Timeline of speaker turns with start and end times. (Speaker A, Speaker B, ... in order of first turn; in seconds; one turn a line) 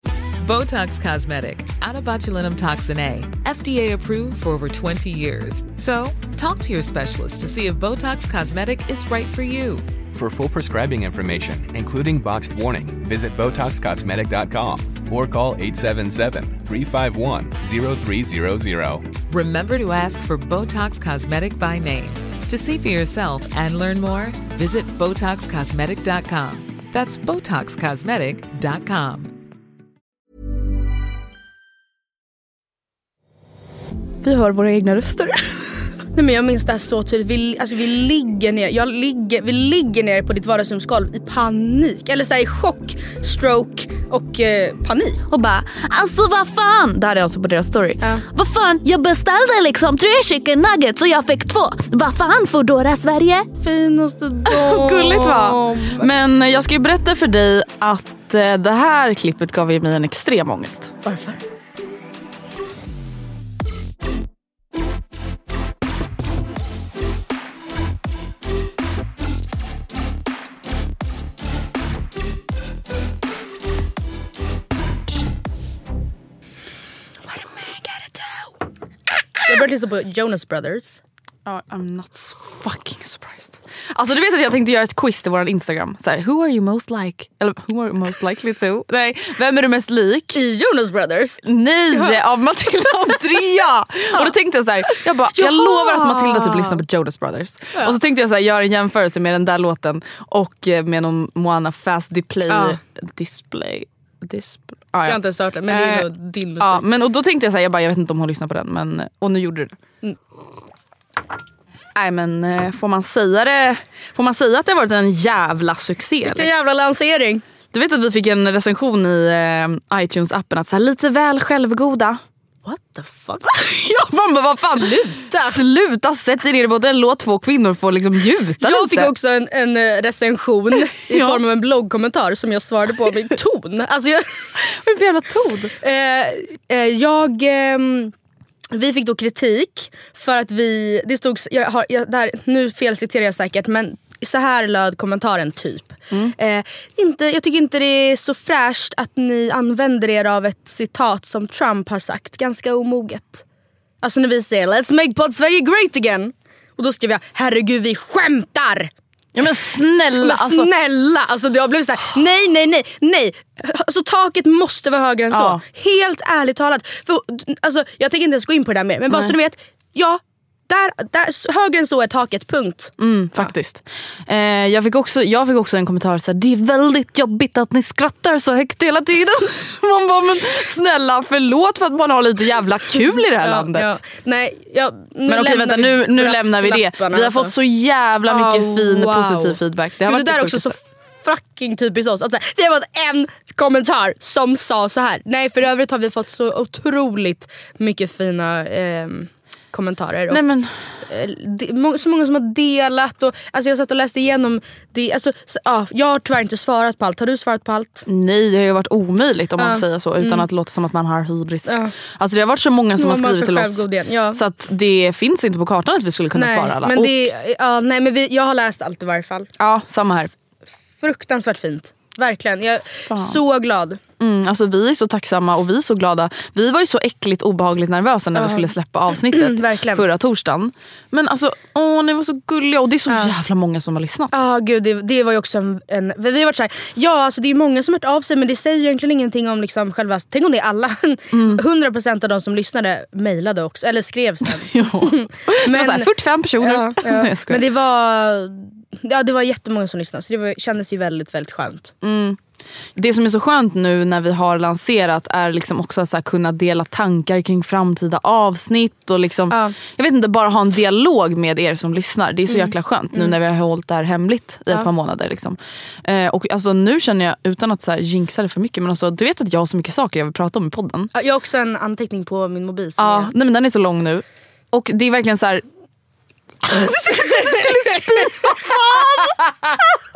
Speaker A: 0.4-9.8
Speaker B: 10.1-19.1
Speaker A: 19.3-29.3
Speaker C: 34.2-35.8
Speaker D: 36.1-45.2
Speaker C: 45.3-53.5
Speaker D: 53.6-56.1
Speaker C: 54.5-60.9
Speaker D: 61.0-61.4
Speaker D: 77.3-78.5
Speaker D: 79.5-81.0
Speaker C: 81.5-90.4
Speaker D: 90.3-91.4
Speaker C: 91.4-109.8
Speaker D: 91.9-92.2
Speaker D: 95.3-96.8
Speaker D: 102.5-102.8
Speaker D: 105.0-106.8
Speaker C: 111.9-116.5
Speaker D: 116.2-117.4
Speaker C: 117.7-122.2
Speaker D: 122.6-123.6
Speaker C: 123.5-129.1
Speaker D: 124.6-125.6
Speaker D: 128.6-134.5
Speaker C: 131.1-131.4
Speaker C: 134.6-135.7
Speaker D: 135.8-138.1
Speaker D: 138.7-153.4
Speaker D: 154.0-158.9
Speaker C: 159.3-160.7
Speaker D: 160.2-173.5
Speaker C: 165.3-165.6
Speaker C: 169.1-169.3
Speaker C: 173.0-184.0
Speaker D: 183.4-187.5
Speaker C: 185.3-190.8
Speaker D: 188.3-200.4
Speaker C: 200.3-200.7
Speaker D: 201.1-208.0
Speaker C: 208.1-217.1
Speaker D: 209.6-210.4
Speaker D: 211.7-211.9
Speaker D: 213.0-214.4
Speaker D: 216.3-219.5
Speaker C: 219.6-220.3
Speaker D: 221.0-224.0
Speaker C: 223.1-223.4
Speaker C: 224.2-234.3
Speaker D: 228.3-230.0
Speaker D: 234.3-246.1
Speaker C: 241.3-241.6
Speaker C: 244.5-247.6
Speaker D: 246.6-251.9
Speaker C: 252.0-252.4
Speaker C: 252.9-271.1
Speaker D: 259.5-259.7
Speaker D: 262.5-263.4
Speaker D: 271.1-273.3
Speaker C: 273.0-275.6
Speaker C: 276.6-279.8
Speaker D: 277.3-277.6